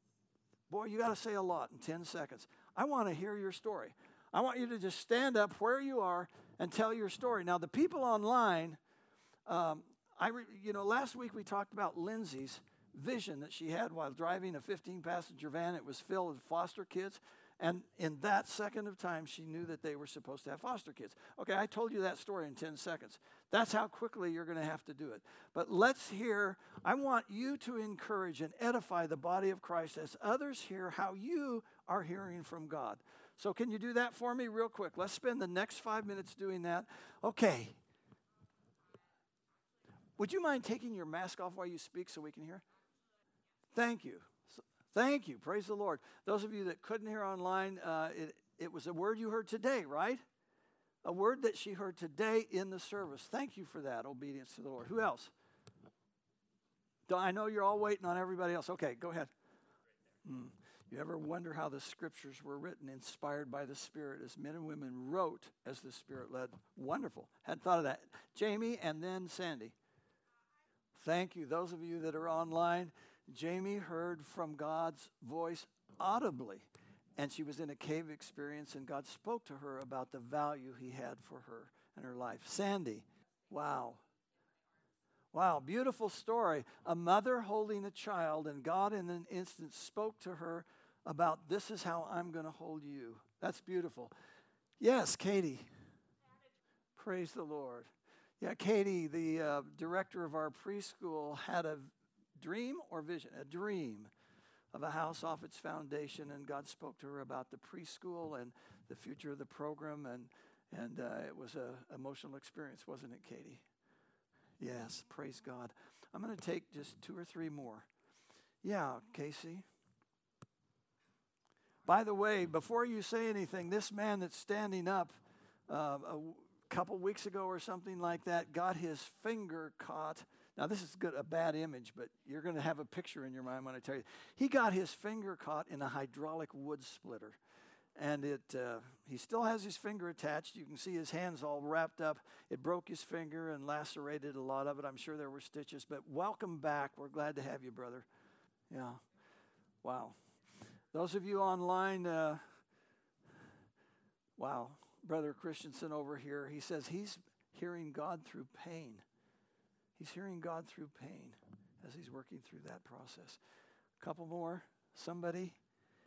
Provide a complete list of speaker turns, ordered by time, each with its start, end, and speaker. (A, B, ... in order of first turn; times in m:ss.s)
0:00.7-0:08.8 A
0:09.5-0:37.8 A
0:40.2-0:42.6 A
0:43.7-0:50.2 A
0:51.0-0:55.3 A
0:57.1-0:59.3 A
1:00.2-1:09.7 A
1:10.9-1:24.0 A
1:25.3-1:34.1 A
1:34.8-1:35.7 A
1:37.0-1:37.9 A
1:38.4-1:44.1 A
1:44.7-1:53.6 A
1:54.6-1:57.9 A
1:58.6-1:59.6 A
2:01.8-2:17.4 A
2:18.0-2:28.1 A
2:28.7-2:29.0 A
2:29.8-2:30.2 A
2:30.9-2:32.4 A
2:34.4-2:39.0 A
2:40.0-2:43.4 A
2:44.0-2:45.6 A